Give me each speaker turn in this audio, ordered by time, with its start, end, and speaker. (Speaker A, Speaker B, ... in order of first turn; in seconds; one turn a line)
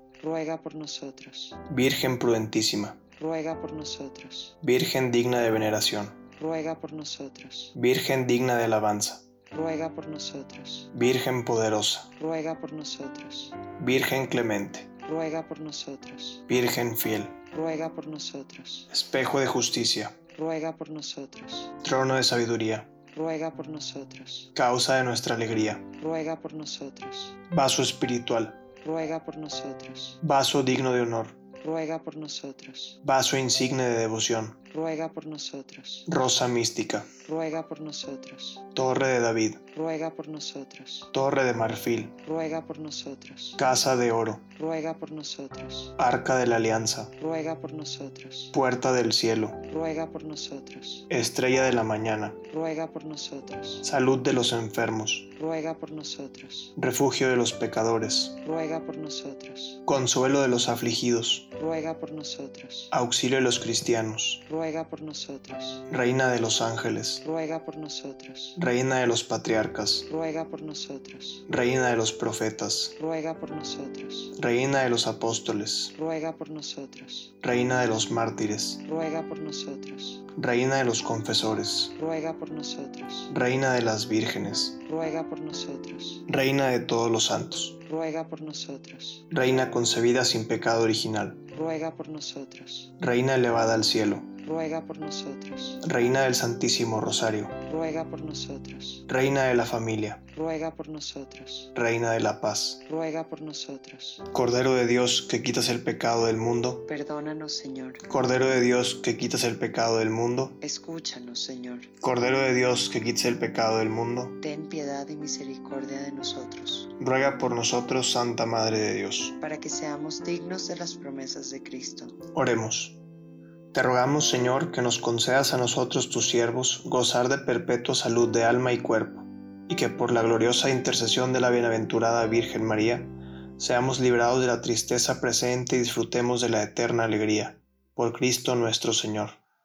Speaker A: 0.2-1.6
Speaker B: 1.7-3.0
Speaker A: 3.2-4.6
Speaker B: 4.6-6.2
Speaker A: 6.4-7.8
Speaker B: 7.8-9.2
Speaker A: 9.5-10.9
Speaker B: 10.9-12.1
Speaker A: 12.2-13.6
Speaker B: 13.8-14.9
Speaker A: 15.0-16.5
Speaker B: 16.5-17.4
Speaker A: 17.5-18.9
Speaker B: 18.9-20.2
Speaker A: 20.3-21.8
Speaker B: 21.8-22.9
Speaker A: 23.1-24.5
Speaker B: 24.5-25.9
Speaker A: 26.0-27.4
Speaker B: 27.5-28.6
Speaker A: 28.8-30.2
Speaker B: 30.2-31.4
Speaker A: 31.6-33.0
Speaker B: 33.0-34.6
Speaker A: 34.7-36.1
Speaker B: 36.1-37.1
Speaker A: 37.2-38.6
Speaker B: 38.7-39.6
Speaker A: 39.7-41.1
Speaker B: 41.1-42.1
Speaker A: 42.2-43.6
Speaker B: 43.6-44.4
Speaker A: 44.5-45.9
Speaker B: 46.0-47.1
Speaker A: 47.2-48.5
Speaker B: 48.5-49.6
Speaker A: 49.6-51.1
Speaker B: 51.1-52.4
Speaker A: 52.5-53.8
Speaker B: 53.8-55.3
Speaker A: 55.4-56.7
Speaker B: 56.8-58.4
Speaker A: 58.4-59.8
Speaker B: 59.9-61.5
Speaker A: 61.6-62.9
Speaker B: 62.9-64.4
Speaker A: 64.5-65.8
Speaker B: 65.9-67.2
Speaker A: 67.2-68.6
Speaker B: 68.6-70.1
Speaker A: 70.1-71.4
Speaker B: 71.5-73.0
Speaker A: 73.0-74.3
Speaker B: 74.3-75.9
Speaker A: 76.0-77.3
Speaker B: 77.4-78.8
Speaker A: 78.8-80.2
Speaker B: 80.3-81.9
Speaker A: 82.0-83.3
Speaker B: 83.3-84.8
Speaker A: 84.8-86.2
Speaker B: 86.3-87.8
Speaker A: 87.8-89.3
Speaker B: 89.3-91.4
Speaker A: 91.5-92.9
Speaker B: 93.0-94.3
Speaker A: 94.4-95.8
Speaker B: 95.8-97.5
Speaker A: 97.6-99.1
Speaker B: 99.1-100.2
Speaker A: 100.3-101.7
Speaker B: 101.8-102.8
Speaker A: 102.8-104.2
Speaker B: 104.3-106.8
Speaker A: 106.9-108.0
Speaker B: 108.0-110.6
Speaker A: 110.6-111.9
Speaker B: 112.0-114.3
Speaker A: 114.4-116.9
Speaker B: 117.0-119.3
Speaker A: 119.4-122.2
Speaker B: 122.3-123.0
Speaker B: 123.7-139.4